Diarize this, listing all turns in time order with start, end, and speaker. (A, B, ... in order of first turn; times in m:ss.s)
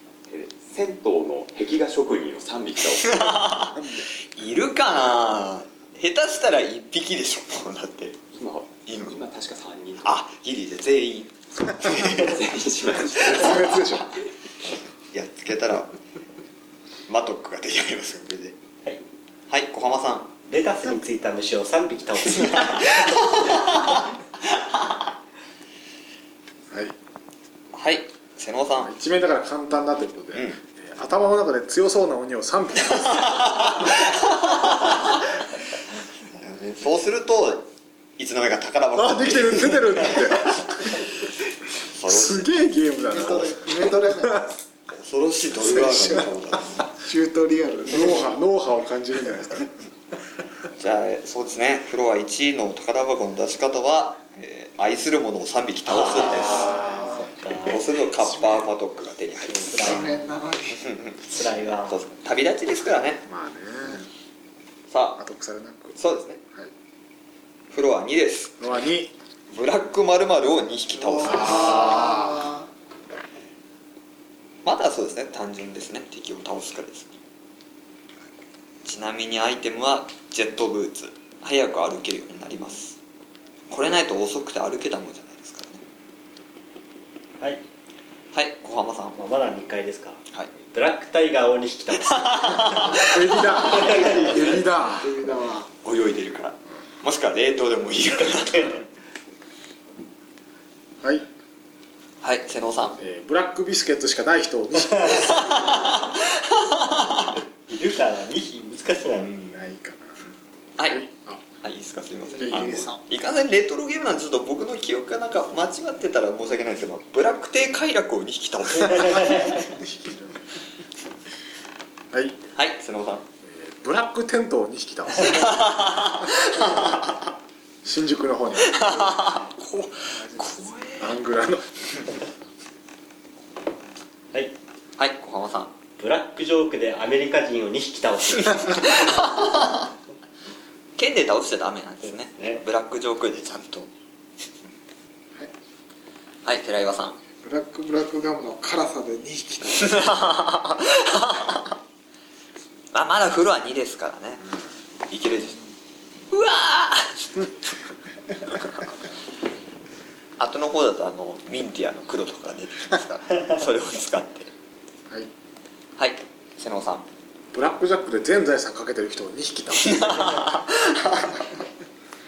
0:00.3-0:03.2 A
0:03.0-0:08.2 B
0:03.8-0:04.0 C
0:08.3-0:10.1 A
0:08.9-0:09.2 B
0:10.0-0:12.4 B
0:11.9-0:13.8 A
0:13.2-0:14.1 C
0:15.1-0:16.0 B
0:17.1-0:18.6 B
0:19.5-0:20.3 B
0:20.5-0:24.0 D
0:22.4-0:24.0 B
0:26.7-0:27.0 C
0:27.7-0:28.9 B
0:28.8-0:33.9 C
0:30.3-0:30.6 B
0:33.2-0:34.2 B
0:36.3-0:41.0 B
0:39.0-0:41.0 C
0:41.8-0:42.5 B
0:42.0-0:44.5 C
0:43.1-0:44.6 E
0:44.9-0:46.9 B
0:45.7-0:46.2 E
0:46.9-0:48.3 E
0:47.9-0:49.8 C
0:50.8-0:56.9 B
0:55.9-0:57.8 D
0:56.5-0:57.2 C
0:57.6-1:00.1 B
0:59.5-1:00.3 D
0:59.7-1:00.9 E
1:00.8-1:03.3 B
1:01.2-1:02.0 D
1:03.3-1:04.1 C
1:04.9-1:05.2 B
1:05.2-1:06.0 C
1:06.0-1:06.4 B
1:07.7-1:08.6 B
1:08.6-1:09.1 C
1:09.5-1:12.2 B
1:11.2-1:12.6 E
1:11.3-1:12.4 C
1:14.6-1:17.1 B
1:18.8-1:23.0 B
1:23.7-1:25.8 B
1:28.3-1:29.2 B
1:29.2-1:33.0 D
1:32.0-1:34.6 B
1:32.9-1:35.2 C
1:33.6-1:34.4 D
1:34.4-1:35.7 E
1:35.8-1:38.8 B
1:41.0-1:41.3 C
1:42.2-1:43.0 B
1:43.0-1:45.7 C
1:45.1-1:47.3 B
1:47.7-1:49.3 D
1:49.2-1:50.2 C
1:50.8-1:51.1 B
1:50.8-1:51.4 C
1:51.6-1:59.6 B
1:52.3-1:53.0 E
1:52.4-1:52.8 C
1:59.6-2:00.4 C
2:02.1-2:02.4 C
2:02.5-2:03.3 B
2:03.4-2:05.6 C
2:05.2-2:07.2 B
2:07.8-2:09.2 C
2:08.7-2:11.1 B
2:11.0-2:12.1 C
2:15.0-2:15.8 B
2:16.0-2:19.3 D
2:18.8-2:19.7 B
2:21.0-2:23.9 B
2:22.3-2:22.6 D
2:26.4-2:27.2 B
2:27.4-2:30.2 E
2:29.9-2:31.7 B
2:32.9-2:34.5 B
2:35.1-2:35.6 B
2:36.3-2:37.5 B
2:40.4-2:44.5 B
2:46.0-2:47.0 B
2:47.5-2:50.5 C
2:49.8-2:51.4 B